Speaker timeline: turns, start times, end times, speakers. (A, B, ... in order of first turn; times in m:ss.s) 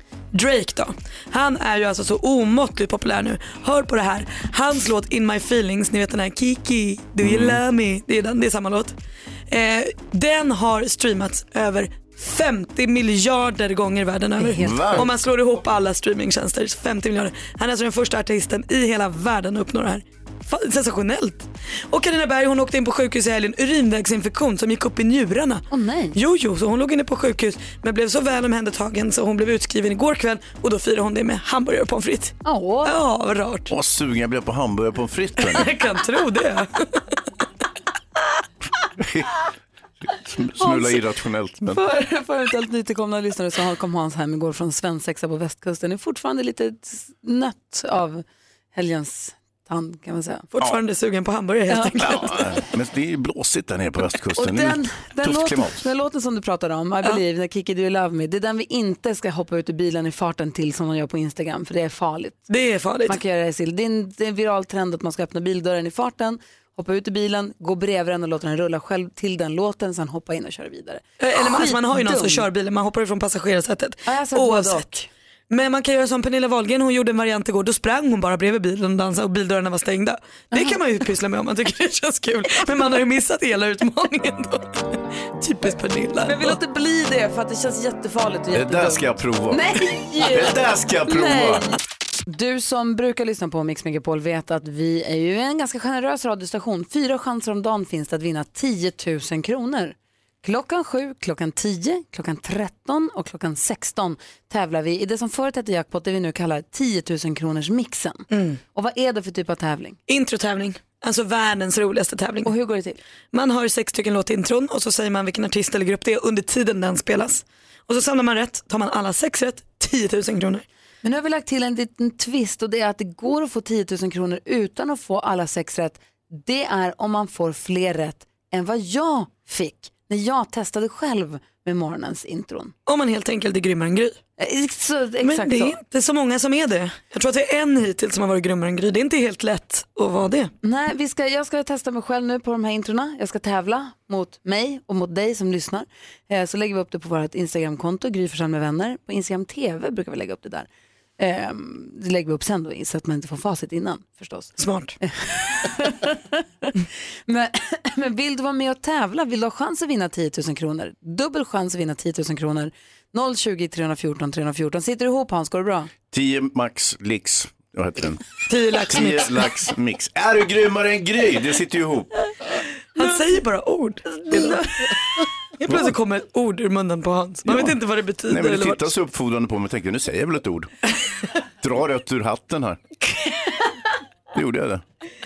0:00.3-0:08.9 A
0:07.2-0:07.6 B
0:09.5-0:33.7 A
0:14.4-0:15.0 C
0:14.6-0:15.1 B
0:25.7-0:26.2 C
0:32.4-0:32.9 C
0:33.7-0:35.7 B
0:35.4-0:37.0 A
0:39.0-0:39.3 B
0:40.1-0:41.8 B
0:40.6-0:41.0 C
0:41.7-0:50.5 C
0:50.6-0:52.4 A
0:51.7-0:52.1 C
0:52.0-0:55.9 B
0:54.4-1:02.5 C
1:02.5-1:03.2 A
1:03.1-1:12.4 C
1:11.2-1:14.9 A
1:14.1-1:15.1 C
1:15.5-1:24.8 A
1:25.4-1:26.6 A
1:26.2-1:50.0 C
1:28.5-1:31.7 B
1:48.3-1:48.6 A
1:50.1-1:52.5 A
1:52.4-1:53.0 C
1:53.3-2:00.6 A
2:01.0-2:12.7 C
2:12.9-2:14.2 A
2:14.4-2:15.8 C
2:15.2-2:20.5 A
2:20.6-2:30.7 C
2:31.2-2:36.7 C
2:34.6-2:35.0 A
2:37.3-2:45.9 C
2:46.1-2:48.2 B
2:48.5-2:49.5 A
2:48.9-2:52.1 B
2:53.0-2:55.0 A
2:54.3-2:54.6 C
2:55.6-2:58.9 A
2:57.4-2:57.8 B
2:58.3-3:00.7 B
3:01.6-3:02.8 B
3:04.3-3:04.8 B